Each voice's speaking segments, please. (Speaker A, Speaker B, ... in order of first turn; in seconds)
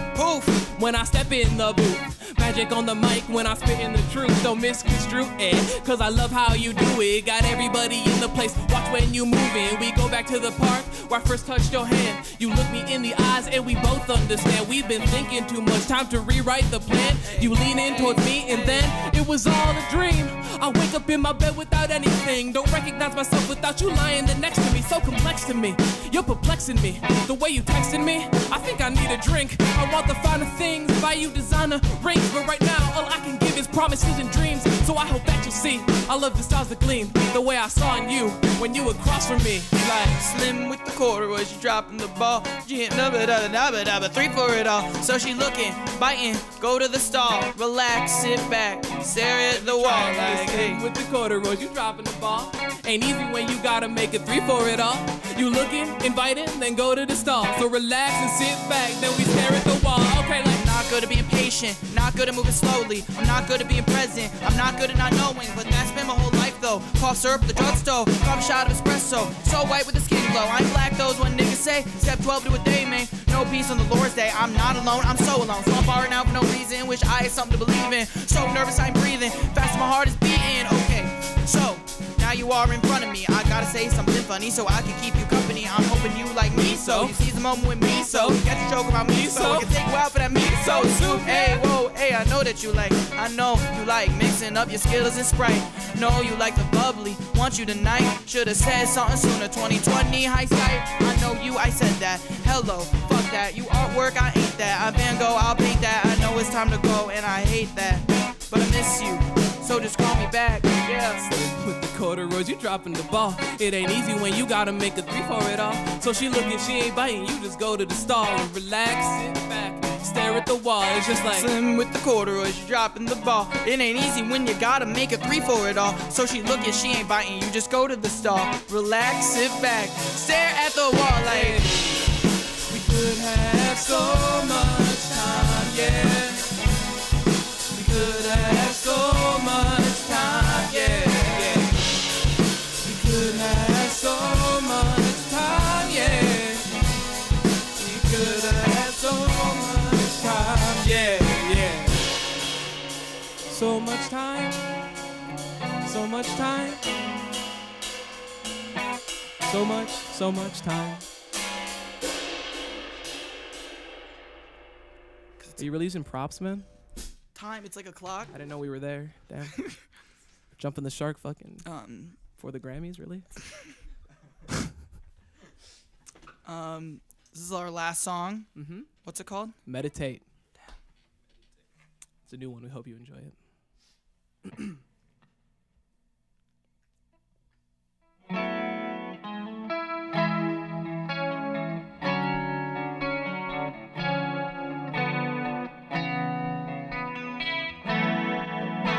Speaker A: 0.1-0.6, 17.1-18.9, 40.2-50.8, 60.5-111.2, 121.3-131.6, 165.4-165.8, 167.3-168.3, 171.6-172.2, 176.4-178.5, 179.0-179.6
Speaker B: 0.5-40.2, 49.5-60.6, 86.5-87.2, 88.0-88.4, 89.1-89.8, 90.3-91.7, 111.2-121.5, 131.2-136.5, 137.7-141.9, 142.8-146.7, 147.7-152.1, 153.4-154.8, 155.8-156.8, 159.4-161.0, 165.6-166.7, 168.3-169.7, 170.5-171.7, 172.3-173.3, 178.5-178.9, 179.6-180.2, 182.2-183.4, 184.4-184.7